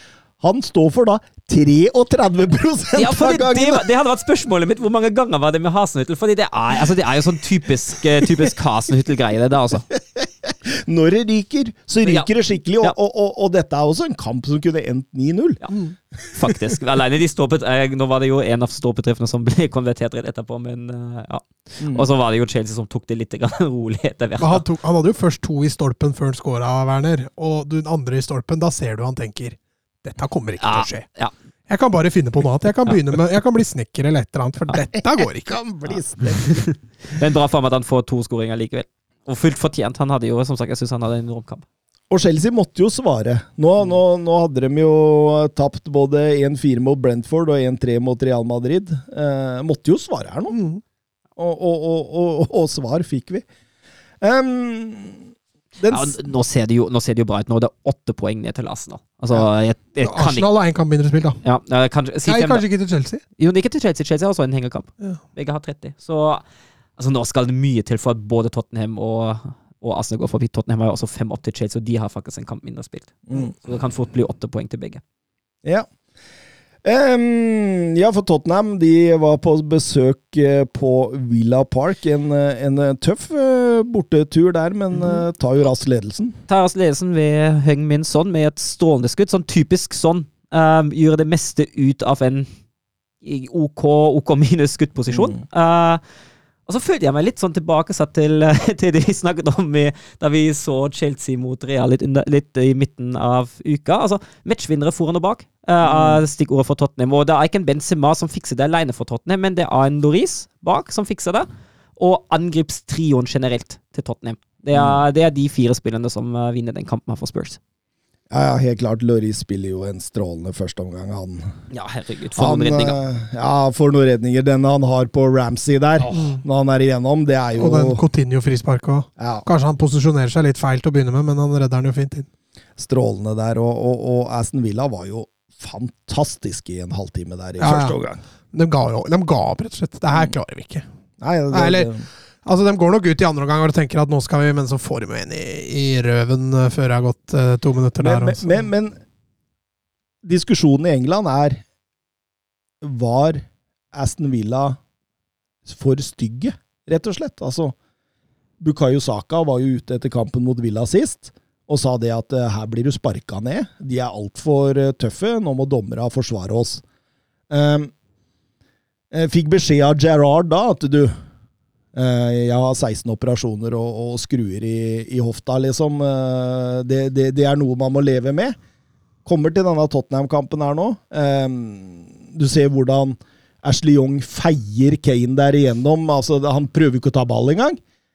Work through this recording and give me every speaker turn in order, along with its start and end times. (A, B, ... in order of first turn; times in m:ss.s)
0:00.4-0:03.8 A
0:03.0-0:09.9 B
0:10.0-0:15.6 A
0:12.0-0:12.9 B
0:15.6-0:24.6 B
0:21.8-0:22.0 A
0:24.4-0:31.1 C
0:30.6-0:31.3 B
0:31.7-0:35.5 C
0:35.4-0:36.7 A
0:36.4-0:41.6 B
0:42.1-0:50.6 A
0:50.5-0:50.8 C
0:51.4-0:53.4 A
0:54.2-0:55.2 A
0:55.8-0:56.2 A
0:55.8-1:00.5 B
1:00.0-1:01.4 C
1:01.4-1:02.6 B
1:02.2-1:03.2 C
1:03.4-1:06.4 B
1:07.0-1:15.0 B
1:13.3-1:13.5 A
1:16.8-1:26.4 A
1:26.5-1:32.5 B
1:33.2-1:36.0 B
1:35.1-1:35.4 A
1:36.6-1:57.6 B
1:45.8-1:46.2 A
1:54.7-1:55.0 A
1:58.3-2:01.5 A
2:01.7-2:03.0 B
2:02.4-2:08.0 A
2:06.1-2:06.4 C
2:07.6-2:12.3 C
2:09.2-2:09.4 A
2:12.8-2:18.2 A
2:17.6-2:17.9 C
2:18.5-2:20.8 C
2:21.2-2:22.0 A
2:21.5-2:21.9 C
2:22.4-2:28.5 C
2:28.0-2:29.0 A
2:30.2-2:31.6 A
2:32.8-2:34.8 A
2:35.6-2:37.8 A
2:38.6-2:46.8 A
2:47.5-2:47.9 A
2:49.1-2:51.2 A
2:51.9-2:58.6 A
2:59.2-3:07.8 A